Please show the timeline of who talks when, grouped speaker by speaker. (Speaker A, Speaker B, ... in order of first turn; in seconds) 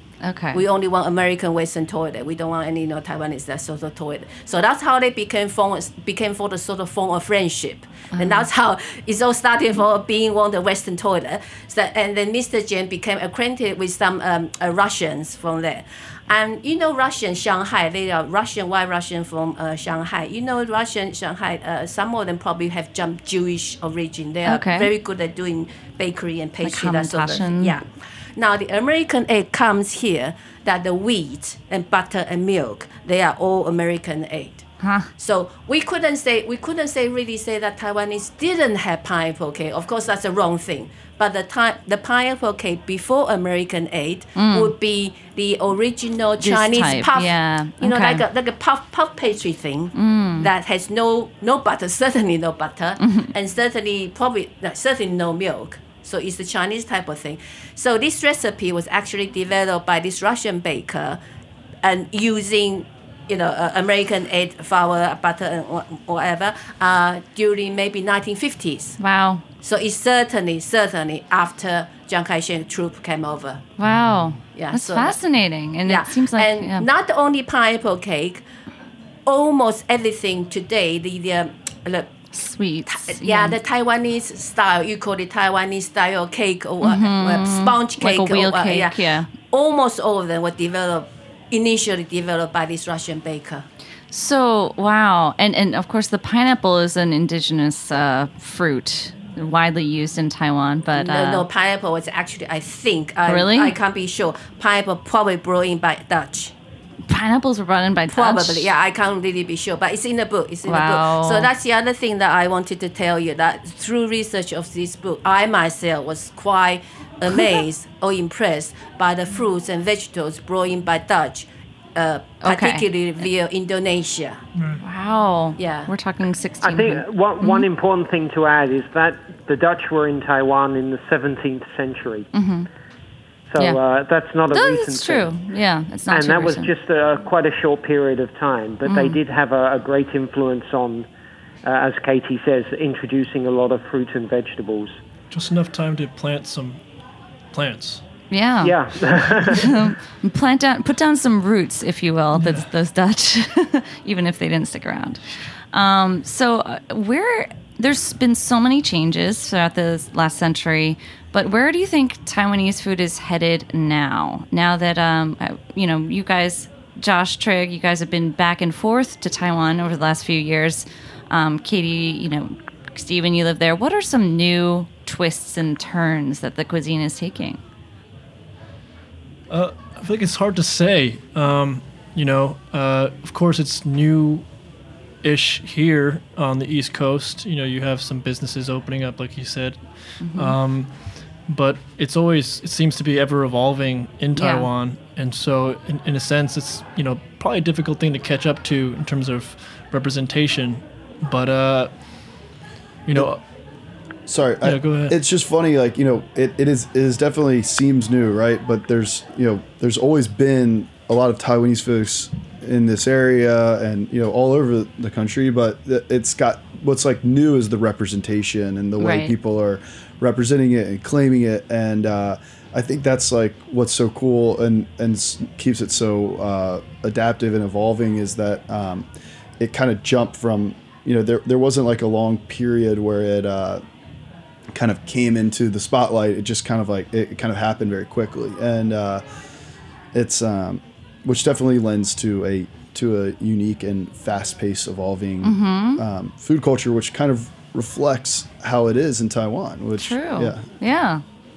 Speaker A: 0.2-0.6, 8.1-8.5, 24.5-24.9, 26.6-27.8, 34.8-35.1, 44.4-44.7, 46.4-48.2, 50.0-50.5, 53.0-53.3, 69.0-69.4, 73.8-76.9, 82.3-83.6, 86.8-89.3, 94.1-101.5, 103.3-103.8, 107.1-108.7, 110.7-111.5, 122.4-122.9, 124.8-127.7, 132.3-132.7, 134.5-136.7, 138.8-139.2, 148.3-148.8, 149.5-155.2, 155.7-177.6, 190.2-190.6, 194.3-194.7, 219.0-219.3, 245.4-246.0, 250.0-251.2
Speaker B: 0.5-27.9, 28.4-34.6, 35.2-61.2, 61.8-69.0, 69.6-73.6, 74.5-75.2, 75.9-78.4, 79.3-82.1, 82.9-93.7, 100.9-106.5, 108.1-124.4, 125.6-125.9
Speaker C: 124.6-124.8, 145.3-146.8, 147.5-148.0, 152.3-152.7, 179.5-184.5, 185.2-202.1, 203.1-203.4, 204.6-205.2
Speaker D: 126.6-132.3, 133.5-135.4, 136.1-141.1, 141.6-145.0, 148.6-149.7
Speaker E: 204.3-229.1, 229.6-233.8, 234.7-239.2, 240.1-250.7